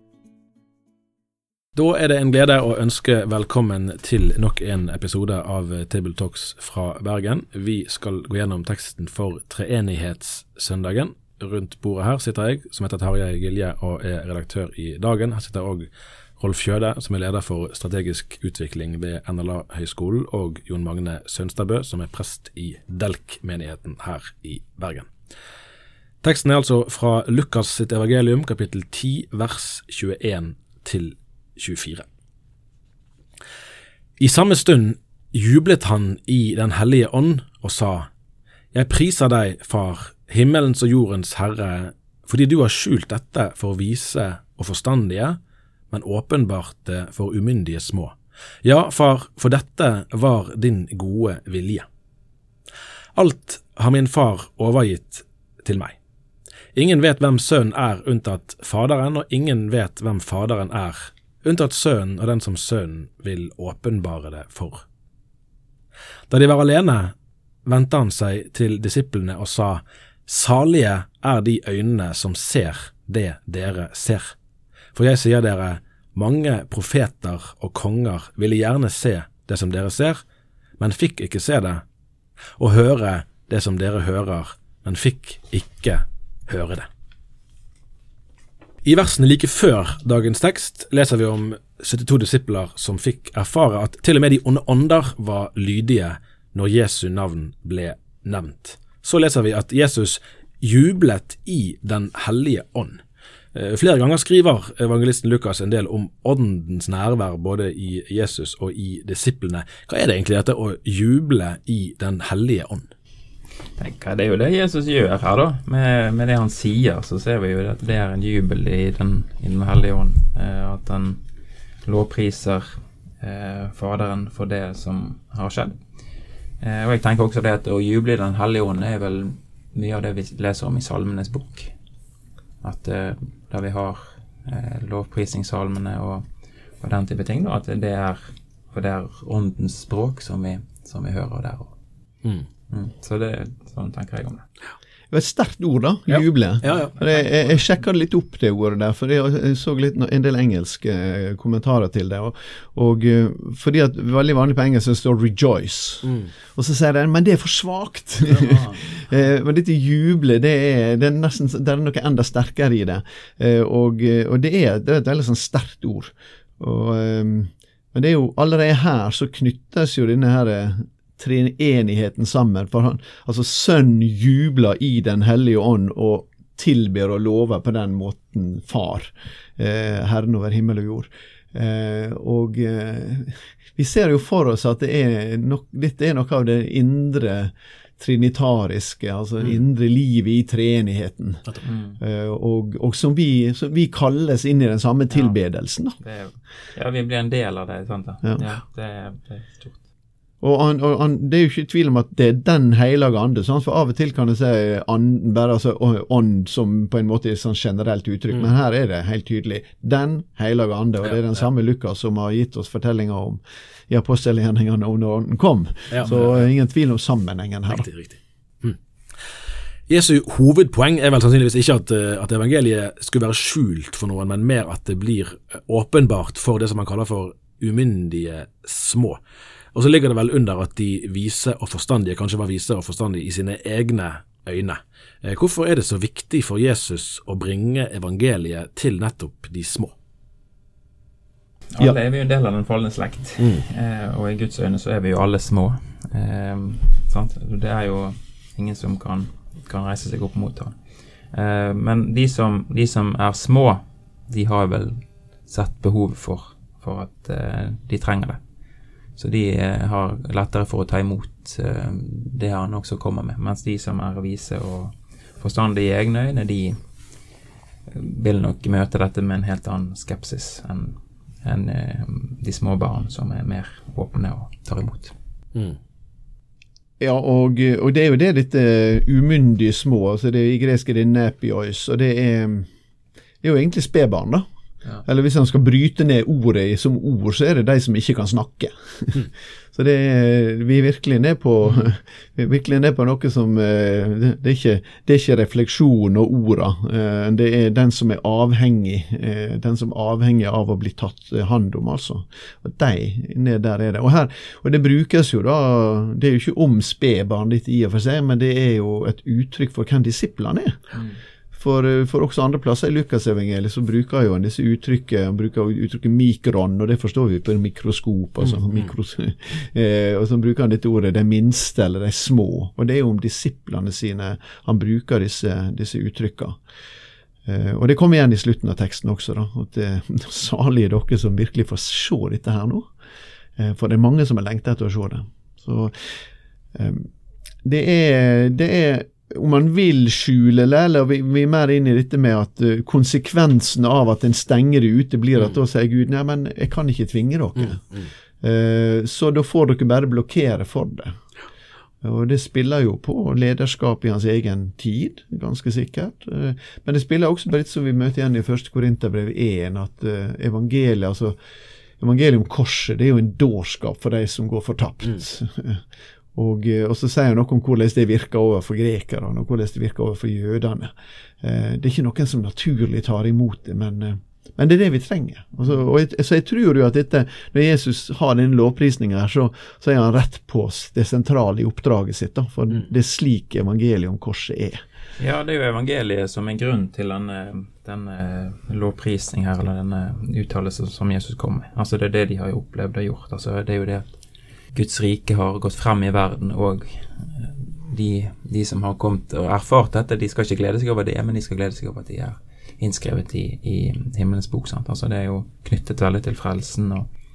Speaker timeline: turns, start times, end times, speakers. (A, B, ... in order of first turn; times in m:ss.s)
0:01.7-0:15.9 A
0:16.4-0:25.1 A
0:26.2-0:32.0 A
0:34.2-0:38.1 A
0:38.7-0:45.4 A
0:45.9-0:51.9 A
0:53.2-0:56.0 A
0:56.7-1:04.8 A
1:06.3-1:07.1 A
1:07.6-1:14.3 A
1:14.9-1:20.2 A
1:20.8-1:21.8 A
1:22.6-1:26.9 A
1:28.8-1:43.0 A
1:43.5-1:52.9 A
1:53.8-2:01.2 B
2:01.8-2:05.8 B
2:06.6-2:11.7 B
2:12.6-2:16.2 B
2:16.8-2:21.7 B
2:22.7-2:24.4 B
2:25.1-3:16.0 C
2:26.1-2:26.9 A
2:27.0-2:27.6 B
2:36.0-2:36.3 A
2:38.2-2:39.1 B
3:11.6-3:12.0 B
3:16.0-3:19.8 B
3:20.4-3:37.9 C
3:35.9-3:36.5 A
3:37.7-3:38.8 A
3:39.9-3:49.2 A
3:49.7-3:59.9 A
4:01.7-4:10.8 B
4:03.4-4:03.6 A
4:11.3-4:18.4 B
4:19.2-4:26.8 B
4:27.9-4:35.1 B
4:37.0-4:42.7 C
4:43.4-4:44.4 C
4:45.0-5:10.9 C
5:11.5-5:26.6 C
5:27.4-5:32.9 C
5:33.6-5:36.1 C
5:36.7-5:37.1 C
5:37.6-5:47.8 C
5:47.6-5:48.1 A
5:48.4-5:51.2 C
5:52.0-6:01.4 C
6:02.0-6:05.8 C
6:06.3-6:24.8 C
6:25.2-6:34.1 B
6:34.7-6:47.1 B